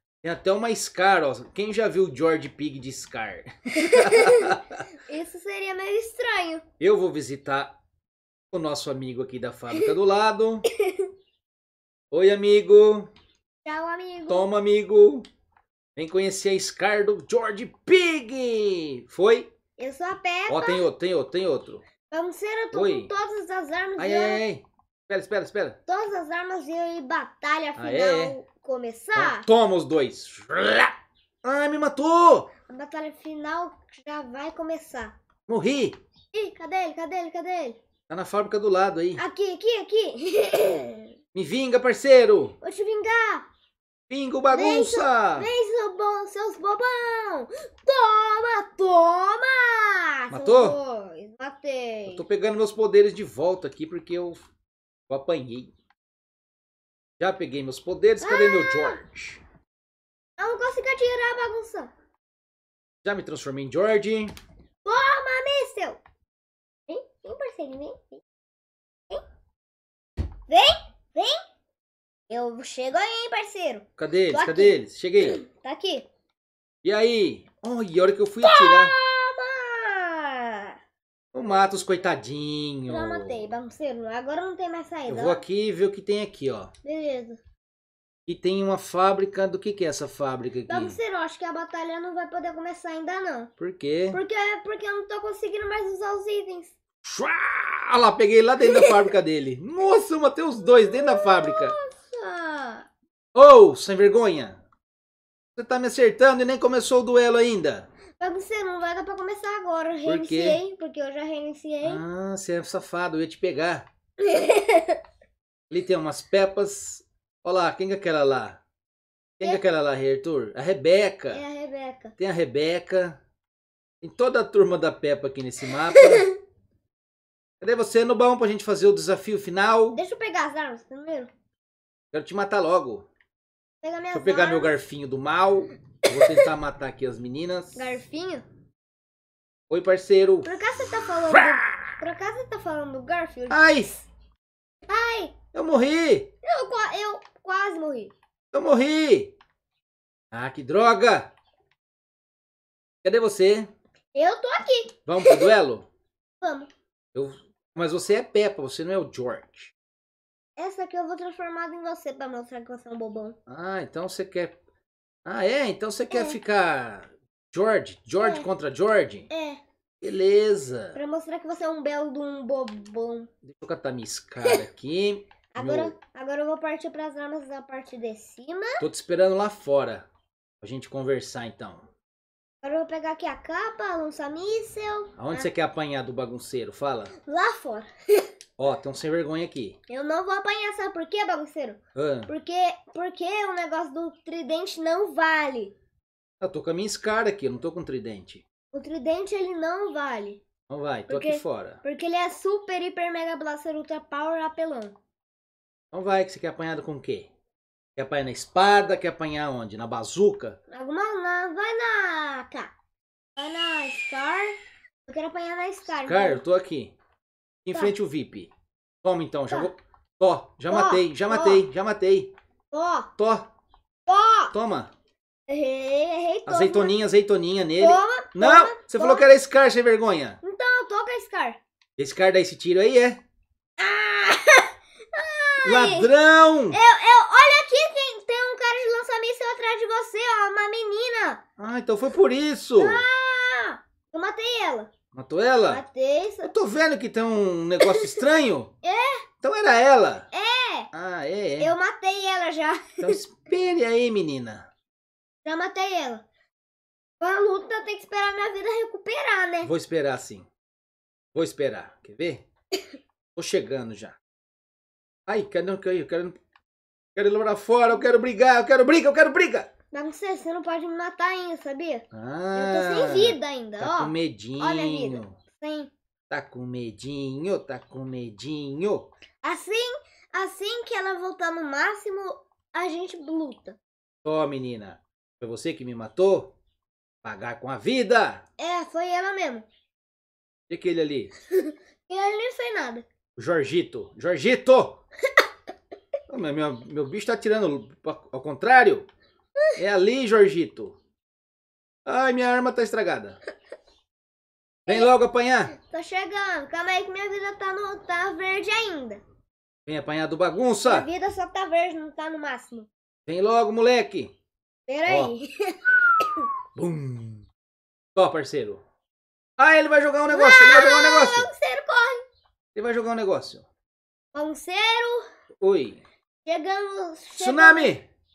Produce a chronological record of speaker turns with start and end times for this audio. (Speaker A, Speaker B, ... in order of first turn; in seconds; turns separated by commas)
Speaker A: 0.2-4.8, Speaker B: 3.9-4.5, Speaker B: 5.1-6.6, Speaker A: 6.8-7.8, Speaker A: 8.5-10.7, Speaker B: 10.8-11.1, Speaker A: 12.1-13.1, Speaker B: 13.7-14.5, Speaker A: 14.3-15.3, Speaker A: 16.0-19.5, Speaker B: 19.8-20.9, Speaker A: 20.5-21.8, Speaker B: 22.1-24.4, Speaker A: 22.7-23.1, Speaker A: 24.0-25.8, Speaker B: 25.9-29.5, Speaker A: 27.8-28.4, Speaker A: 29.1-32.5, Speaker B: 32.7-35.1, Speaker A: 35.5-36.0, Speaker B: 36.3-37.8, Speaker A: 38.1-39.2, Speaker B: 39.2-41.1, Speaker A: 41.3-42.6, Speaker B: 42.6-43.5, Speaker A: 44.1-45.5, Speaker B: 44.5-52.2, Speaker A: 50.3-50.8, Speaker A: 52.1-54.5, Speaker A: 55.1-55.7, Speaker A: 57.2-59.4, Speaker B: 58.2-59.0, Speaker B: 60.4-61.9, Speaker A: 63.0-64.3, Speaker B: 64.8-66.0, Speaker B: 66.9-68.2, Speaker B: 70.5-71.4, Speaker B: 72.3-76.1, Speaker A: 74.0-75.5, Speaker A: 76.8-79.0, Speaker B: 78.4-80.8, Speaker A: 81.3-83.4, Speaker B: 82.9-85.4, Speaker A: 85.1-86.7, Speaker B: 86.8-87.4, Speaker A: 88.3-91.0, Speaker B: 90.7-93.5, Speaker A: 93.6-94.2, Speaker B: 94.1-96.7, Speaker A: 97.0-101.8, Speaker B: 98.6-99.0, Speaker B: 100.8-102.8, Speaker A: 103.3-104.6, Speaker A: 105.6-107.9, Speaker B: 108.2-112.0, Speaker A: 110.0-110.6, Speaker A: 111.8-113.9, Speaker B: 114.2-115.0, Speaker A: 115.7-118.6, Speaker A: 119.4-121.4, Speaker B: 121.3-122.2, Speaker A: 122.2-123.2, Speaker A: 124.0-126.3, Speaker B: 125.9-126.3, Speaker A: 127.6-130.0, Speaker B: 129.9-131.3, Speaker A: 132.1-133.1, Speaker B: 133.8-134.8, Speaker A: 134.1-138.0, Speaker B: 137.8-138.4, Speaker A: 139.7-140.6, Speaker B: 140.4-144.1, Speaker A: 141.3-142.0, Speaker A: 143.5-143.9, Speaker B: 144.9-145.3, Speaker A: 145.5-146.3, Speaker B: 146.4-148.1, Speaker A: 148.5-149.3, Speaker A: 150.3-151.3, Speaker A: 153.0-153.7, Speaker B: 154.2-155.5, Speaker A: 155.1-155.9, Speaker B: 156.4-156.7, Speaker A: 157.2-159.7, Speaker B: 160.6-163.4, Speaker A: 163.5-164.6, Speaker A: 165.3-169.3, Speaker B: 166.1-166.4, Speaker B: 168.2-168.5, Speaker B: 169.3-169.6, Speaker A: 170.0-171.0, Speaker B: 170.9-173.3, Speaker A: 173.5-175.9, Speaker B: 175.6-178.8, Speaker A: 178.8-180.1, Speaker A: 180.6-181.9, Speaker B: 182.6-185.5, Speaker A: 185.2-187.1, Speaker B: 187.3-188.3, Speaker A: 188.6-189.8, Speaker B: 189.9-195.7, Speaker A: 191.9-192.3, Speaker A: 196.4-198.4, Speaker B: 198.7-200.4, Speaker A: 200.7-201.8, Speaker B: 201.1-204.9, Speaker A: 205.9-207.3, Speaker A: 208.0-210.6, Speaker B: 210.7-212.7, Speaker B: 213.4-214.6, Speaker B: 215.1-216.4, Speaker A: 216.0-216.9, Speaker A: 217.7-218.5, Speaker A: 219.0-222.3, Speaker B: 220.7-221.6, Speaker B: 222.7-223.1, Speaker A: 223.2-223.5, Speaker B: 224.1-224.5, Speaker A: 224.5-224.9, Speaker B: 225.5-226.9, Speaker A: 226.5-230.4, Speaker B: 227.8-229.2, Speaker B: 230.4-231.6, Speaker A: 232.0-233.2, Speaker B: 233.8-236.1, Speaker A: 235.6-236.8, Speaker B: 236.7-241.4, Speaker A: 241.6-243.1, Speaker B: 242.8-244.9, Speaker A: 245.1-245.8, Speaker B: 245.7-246.5, Speaker A: 246.4-248.7, Speaker B: 247.8-248.2, Speaker B: 248.8-249.2, Speaker A: 249.4-250.3, Speaker B: 250.3-250.9, Speaker A: 250.9-251.7, Speaker B: 251.6-253.2, Speaker A: 253.0-254.7, Speaker B: 255.4-256.2, Speaker B: 257.2-259.7, Speaker A: 259.6-260.5, Speaker A: 261.3-262.4, Speaker A: 263.4-264.2, Speaker A: 265.3-266.4, Speaker A: 267.1-269.7, Speaker B: 269.9-275.9, Speaker A: 272.1-275.4, Speaker A: 276.3-279.1, Speaker B: 279.4-283.8, Speaker A: 284.2-286.5, Speaker A: 287.2-288.4, Speaker B: 288.6-289.7, Speaker A: 290.7-291.3, Speaker B: 291.5-293.1, Speaker A: 293.4-295.0, Speaker A: 296.3-299.1, Speaker A: 299.8-301.0, Speaker A: 302.1-303.4, Speaker A: 304.9-305.8, Speaker B: 305.8-309.2, Speaker A: 309.9-311.1, Speaker B: 310.9-312.9, Speaker A: 313.3-314.3, Speaker B: 314.9-316.5, Speaker A: 315.1-315.3, Speaker A: 316.8-317.5, Speaker A: 318.1-318.8, Speaker A: 319.6-321.5, Speaker B: 320.3-322.2, Speaker A: 322.8-323.6, Speaker B: 324.3-325.2, Speaker A: 325.6-326.0, Speaker B: 326.4-327.9, Speaker A: 327.4-328.1